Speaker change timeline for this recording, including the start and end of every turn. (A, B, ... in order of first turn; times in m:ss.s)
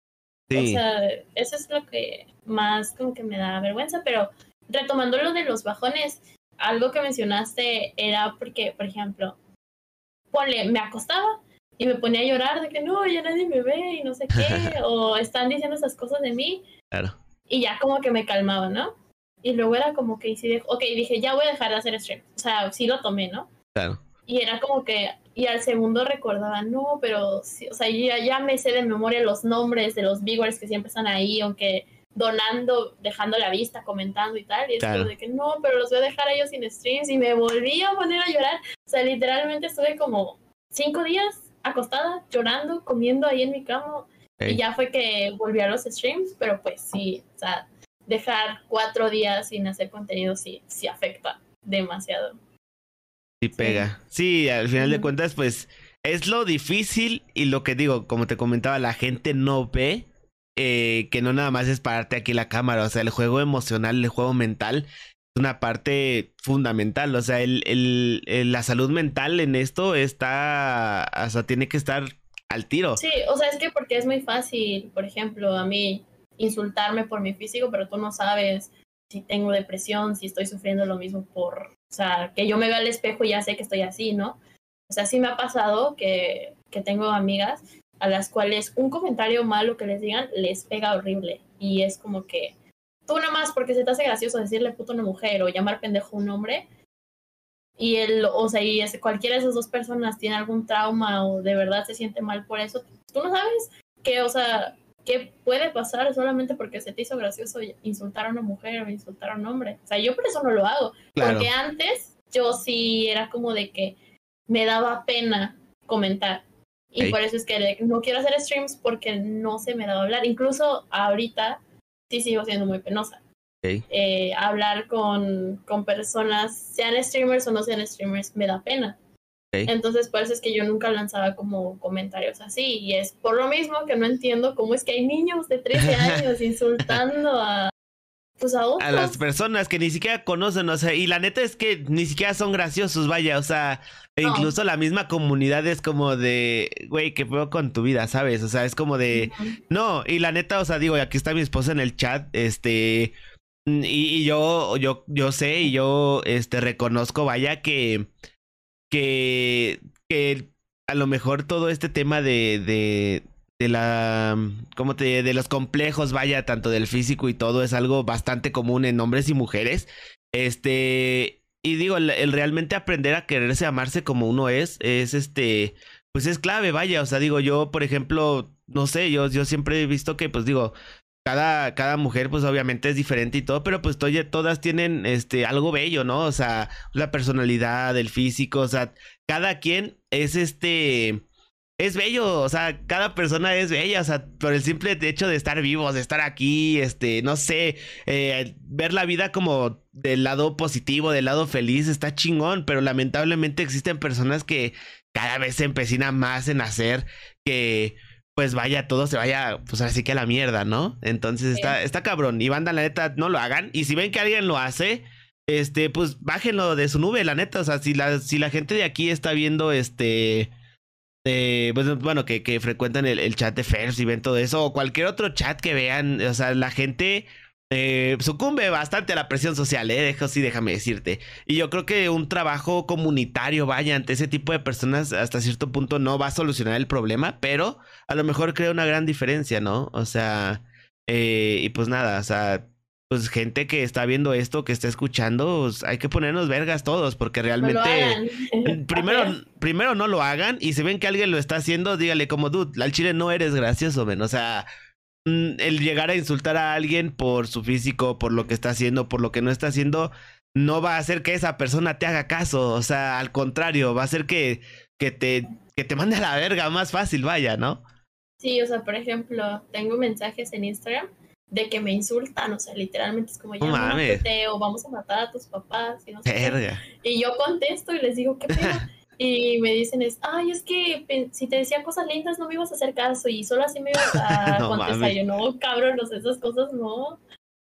0:00.5-0:00.8 A
0:00.5-0:09.4 B
0:10.3-0:16.6 B
0:14.3-0:14.8 A
0:17.5-0:23.5 B
0:23.7-0:24.0 A
0:24.2-0:52.4 B
0:34.8-0:35.1 A
0:53.4-1:13.0 A
0:53.6-0:53.9 B
0:54.8-0:55.1 B
1:13.0-1:24.4 B
1:24.9-1:32.5 B
1:33.0-1:36.7 B
1:37.8-1:54.0 B
1:51.2-1:51.5 A
1:54.5-2:03.2 B
2:03.9-2:09.0 B
2:09.6-2:17.7 B
2:18.4-2:19.2 B
2:18.8-2:33.1 A
2:24.2-2:24.5 B
2:29.1-2:29.6 B
2:33.7-2:38.1 A
2:38.9-3:00.7 A
3:01.2-3:11.2 A
3:11.8-3:40.5 A
3:31.5-3:31.8 B
3:41.2-4:14.7 A
4:07.6-4:09.3 B
4:15.2-4:27.8 A
4:28.4-4:47.2 B
4:33.6-4:34.2 A
4:36.2-4:36.8 A
4:38.5-4:38.8 A
4:44.1-4:45.2 A